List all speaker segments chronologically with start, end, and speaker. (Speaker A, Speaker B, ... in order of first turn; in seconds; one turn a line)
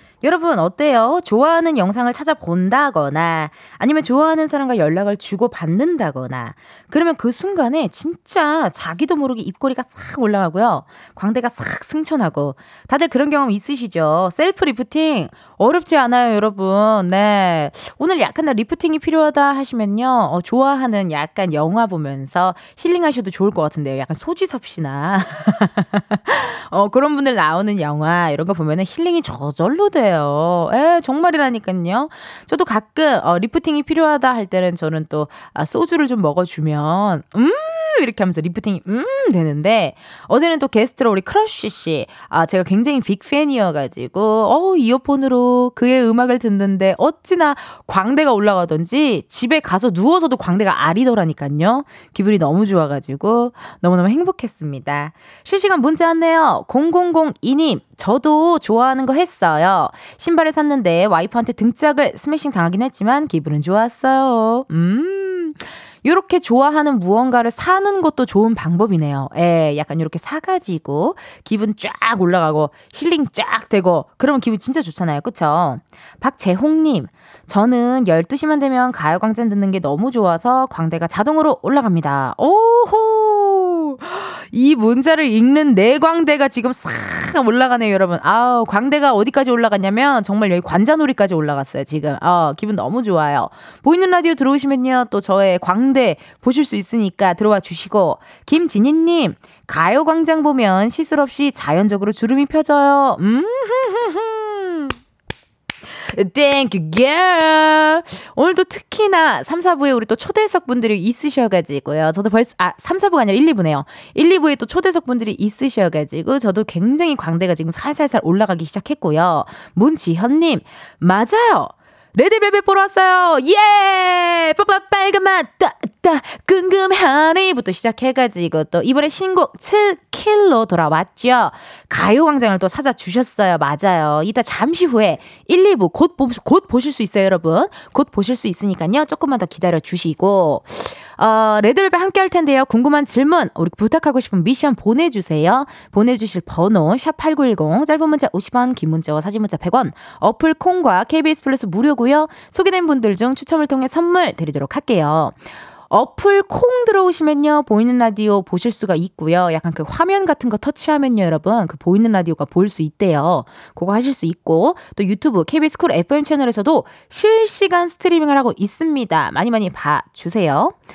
Speaker A: 0.2-105.0
Speaker A: 106.1-170.8